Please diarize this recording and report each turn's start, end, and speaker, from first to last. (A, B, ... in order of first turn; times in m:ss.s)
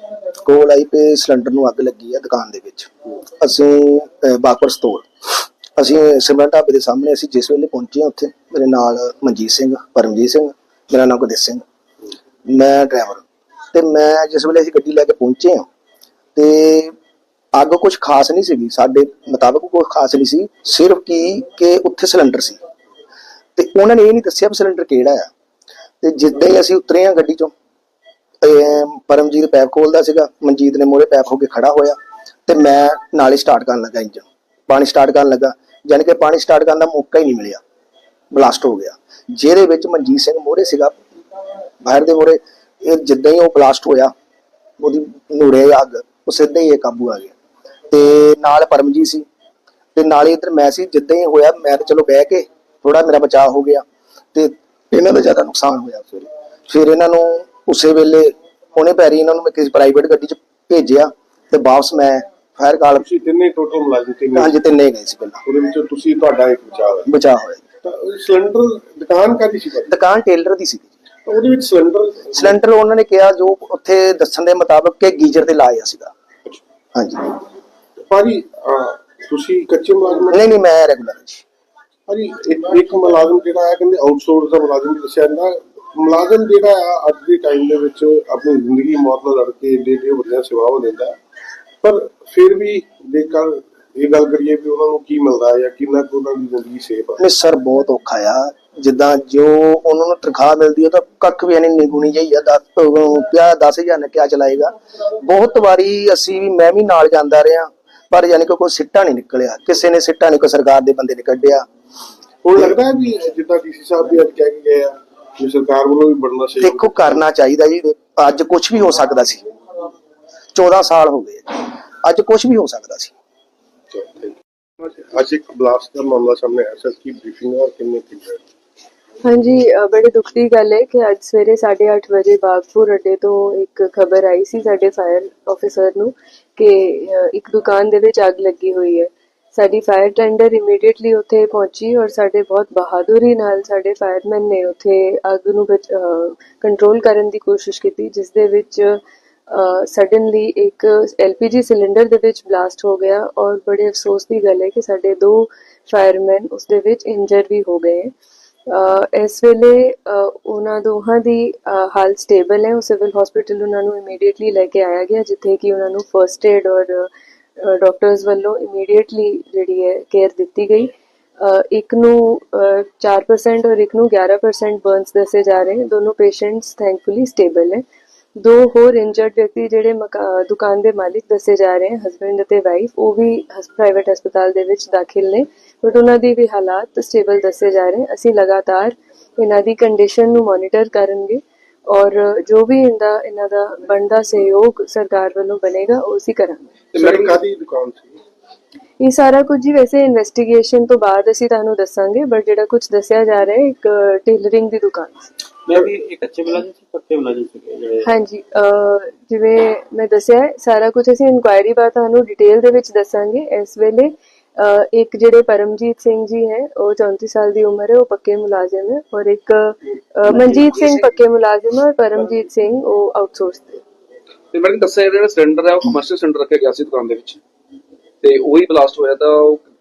0:00.4-0:11.6 A
0:12.4-0:15.6 A
0:16.4-0:16.9 A
0:17.5-0:22.6 A
0:23.6-0:25.3 A
0:26.0-0:27.5 A
0:28.4-0:37.6 A
0:38.3-0:41.0 A
0:41.8-0:44.1 A
0:44.8-0:47.3 A
0:47.9-0:49.2 A
0:49.9-1:03.0 A
1:03.0-1:04.6 B
1:04.3-1:05.4 A
1:05.4-1:07.1 B
1:07.1-1:07.6 A
1:07.8-1:09.9 B
1:09.9-1:11.0 A
1:11.2-1:12.6 B
1:12.3-1:16.1 A
1:16.9-1:17.4 A
1:18.0-1:20.5 B
1:20.3-1:21.4 A
1:22.1-1:31.2 B
1:31.8-1:37.2 B
1:37.2-1:51.6 A
1:52.4-1:57.2 B
1:56.6-1:59.4 A
2:00.5-2:03.1 A
2:03.9-2:08.4 B
2:09.2-2:38.1 C
2:38.7-2:57.8 C
2:58.4-3:16.8 C
3:16.9-3:18.2 B
3:17.0-3:17.3 D
3:19.0-3:25.3 C
3:25.6-3:28.1 E
3:28.0-3:43.8 C
3:40.4-3:41.1 D
3:44.5-3:47.4 D
3:48.2-3:49.6 D